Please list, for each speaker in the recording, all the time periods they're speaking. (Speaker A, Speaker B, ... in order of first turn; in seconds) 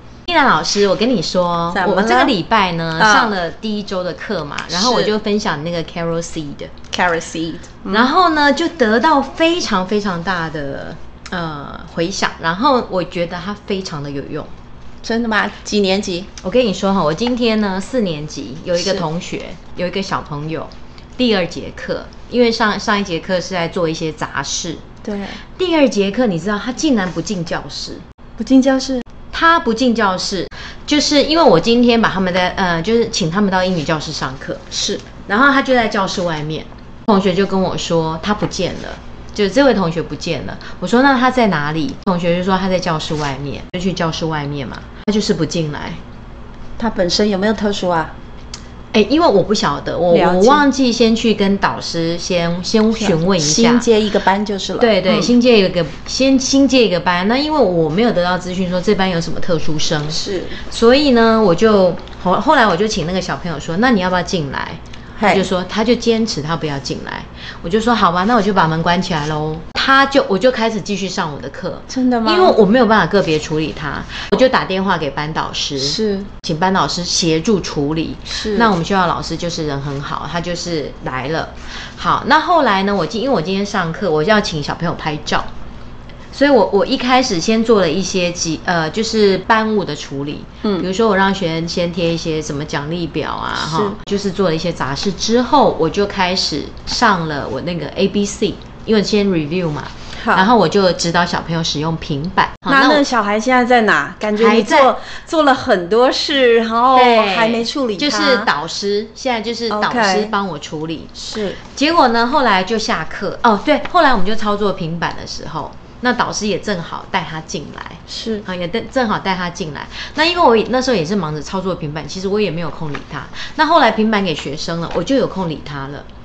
Speaker A: 0.3-6.7, 7.9-14.5, 16.4-24.8, 25.6-28.0, 29.3-46.0, 48.9-53.9, 54.8-85.5, 86.3-103.0, 104.4-104.9, 107.0-126.1
Speaker B: 1.7-2.4, 3.0-3.3, 4.7-5.1, 6.9-8.1, 15.0-16.3, 18.8-19.1, 25.0-25.4, 28.4-29.0, 34.7-35.0, 46.8-48.1, 50.1-50.7, 53.0-55.3, 60.1-60.6, 65.2-65.5, 71.9-72.6, 75.8-76.3, 78.3-78.7, 93.6-94.0, 100.2-100.5, 102.7-108.5, 109.7-110.3, 111.2-111.6, 118.1-118.5